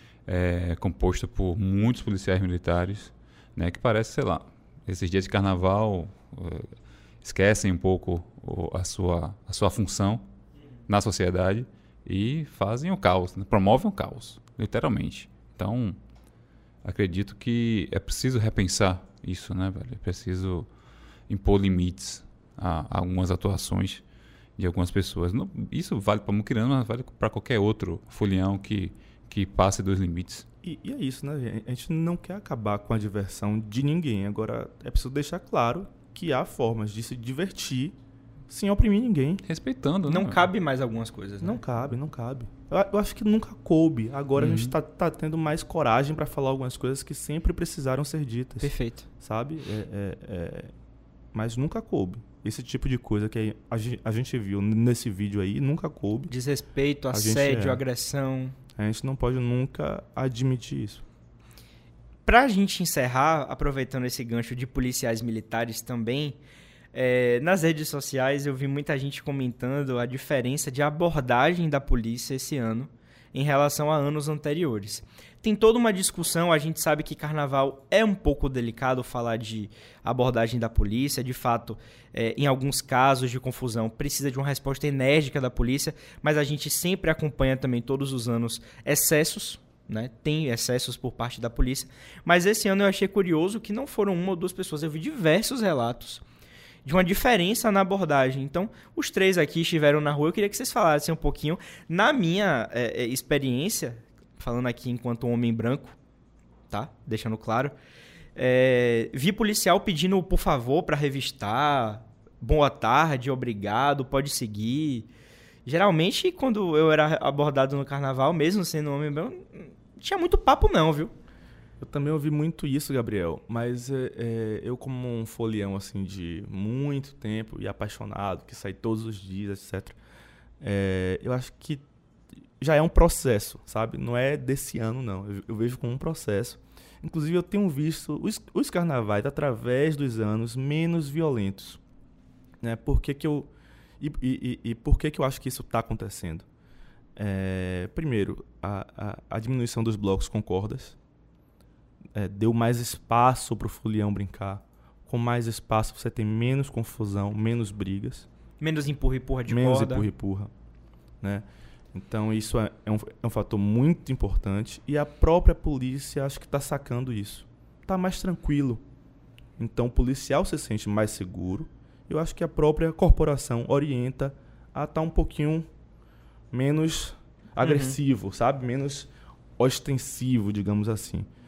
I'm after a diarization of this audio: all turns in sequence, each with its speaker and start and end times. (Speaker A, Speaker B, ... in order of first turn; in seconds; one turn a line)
Speaker A: 0.3-6.7
Speaker A: 7.2-10.2
Speaker A: 10.9-16.0
Speaker A: 16.8-20.7
Speaker A: 21.3-24.0
Speaker A: 24.6-30.4
Speaker B: 30.6-38.0
Speaker B: 38.5-39.4
Speaker A: 39.5-40.5
Speaker C: 40.0-41.6
Speaker B: 41.4-50.7
Speaker A: 44.4-44.7
Speaker C: 48.6-49.0
Speaker B: 51.3-56.3
Speaker C: 56.3-58.5
Speaker B: 57.1-57.8
Speaker B: 58.8-61.0
Speaker C: 62.2-66.4
Speaker C: 66.9-96.2
Speaker C: 96.8-106.0
Speaker C: 106.7-107.8
Speaker C: 108.3-115.1
Speaker C: 115.6-121.1
Speaker B: 121.8-130.0
Speaker B: 130.6-131.8
Speaker B: 132.6-141.8
Speaker B: 142.6-146.4
Speaker B: 147.2-150.9
Speaker B: 152.1-158.3
Speaker C: 158.6-160.1
Speaker B: 159.5-160.5
Speaker B: 161.2-168.8
Speaker B: 169.6-175.7
Speaker B: 176.5-181.3
Speaker C: 177.6-178.0